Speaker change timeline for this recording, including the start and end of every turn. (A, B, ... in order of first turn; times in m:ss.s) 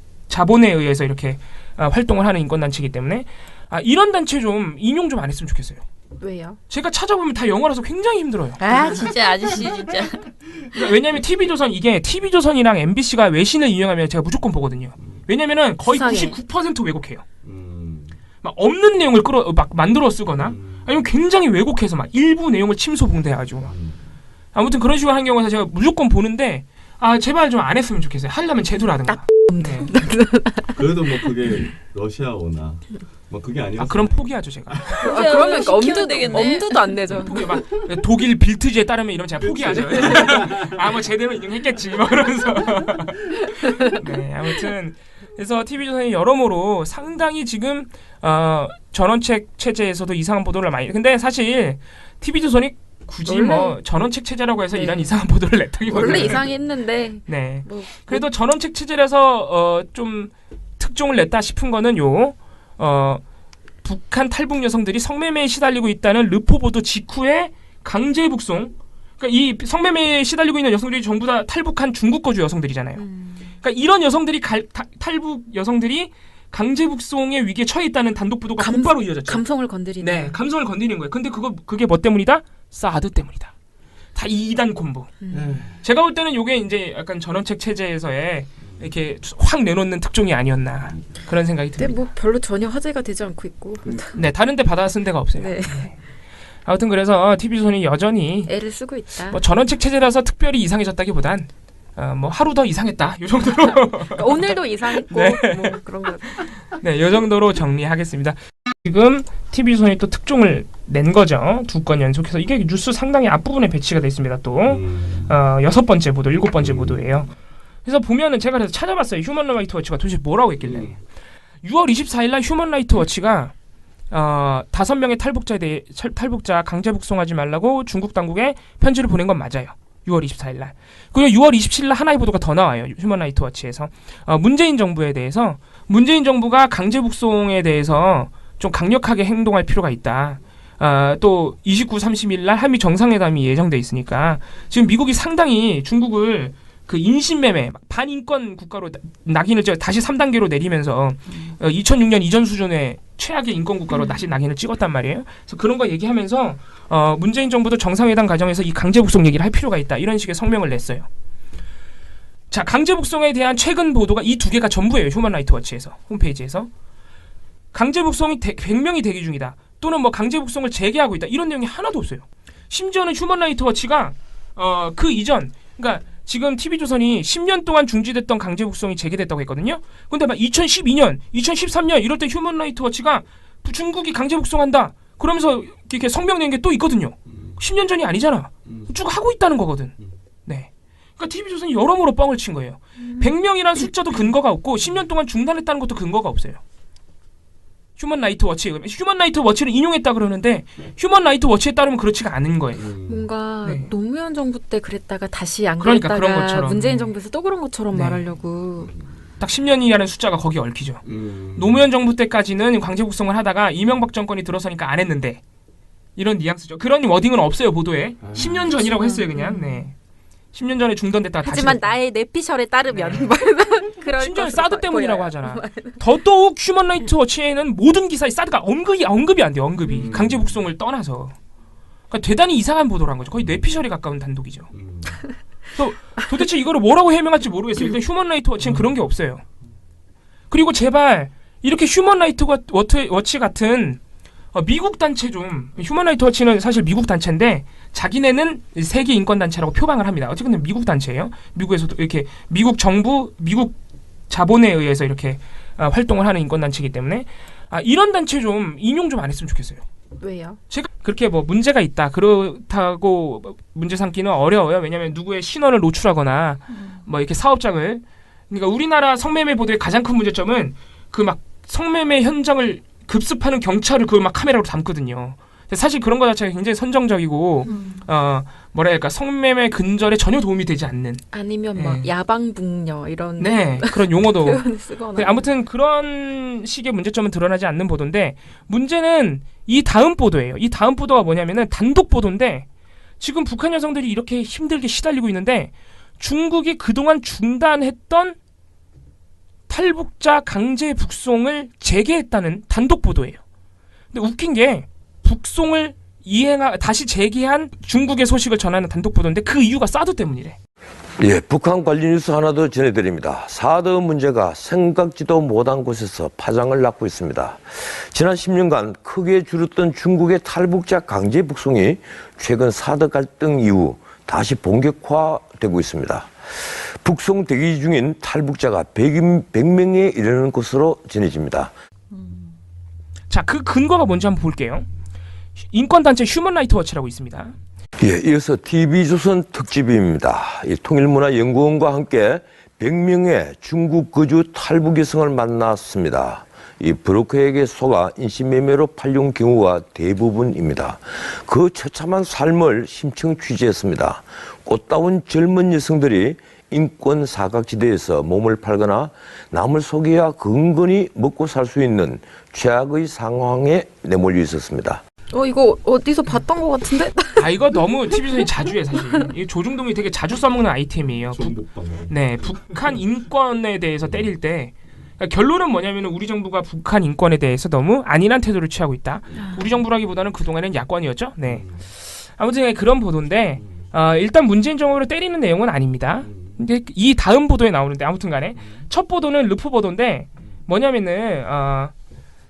0:00.3-0:05.8 A
0:06.2-0:06.6 B
0:06.7-0:08.7 A
0:08.6-0:10.3 C
0:08.7-0:09.1 B
0:10.7-0:17.2 A
0:15.9-0:16.4 B
0:17.4-0:18.2 D
0:18.4-0:23.7 A
0:20.4-0:20.9 D
0:23.6-0:24.0 D
0:24.5-0:30.0 A
0:29.1-0:31.3 B
0:30.8-0:35.0 D
0:33.8-0:35.2 A
0:35.0-0:37.1 C
0:35.0-0:37.5 B
0:37.1-0:56.5 A
0:39.4-0:40.9 D
0:53.2-0:53.8 B
0:54.7-0:55.1 B
0:55.9-0:58.2 B
0:57.2-1:03.2 A
1:03.8-1:19.4 A
1:13.0-1:13.5 B
1:18.6-1:20.4 B
1:20.0-1:23.5 A
1:24.1-1:32.0 A
1:25.2-1:25.6 B
1:25.3-1:25.8 D
1:31.8-1:34.1 B
1:34.1-1:36.0 A
1:35.4-1:35.9 B
1:36.6-1:38.5 A
1:38.5-1:39.4 B
1:39.3-1:57.3 A
1:43.6-1:46.4 B
1:54.7-1:55.4 D
1:56.6-1:57.1 D
1:57.8-2:01.0 A
2:00.6-2:01.0 D
2:01.6-2:03.5 A
2:04.1-2:41.1 A
2:42.5-2:46.7 A
2:47.7-3:16.6 A
3:08.6-3:08.9 D
3:13.0-3:13.3 B
3:18.0-3:22.9 A
3:22.8-3:23.3 D
3:23.1-3:28.9 B
3:23.6-3:23.9 A
3:25.8-3:27.1 A
3:27.9-3:28.3 A
3:29.4-3:35.4 A
3:31.1-3:31.8 D
3:36.2-3:39.9 A
3:38.2-3:38.7 D
3:38.5-3:39.8 B
3:40.5-3:42.0 A
3:41.4-3:46.0 B
3:42.9-3:43.4 A
3:44.1-3:51.3 A
3:49.9-3:50.6 D
3:52.1-3:54.7 A
3:54.7-3:55.2 D
3:55.7-3:59.4 A
4:00.5-4:04.0 A
4:04.5-4:13.8 A
4:14.3-4:19.8 A
4:20.2-4:20.6 B
4:20.7-4:42.1 A
4:37.6-4:38.0 B
4:41.3-4:45.5 B
4:43.4-4:52.7 A
4:53.2-4:58.4 A
4:59.7-5:03.4 A
5:04.1-5:10.6 A
5:11.2-5:31.7 E
5:33.3-5:34.9 A
5:35.6-5:37.6 A
5:38.0-6:05.0 E
6:05.3-6:07.5 B
6:07.4-6:31.9 A
6:11.3-6:12.9 D
6:21.4-6:21.9 D
6:26.2-6:26.6 D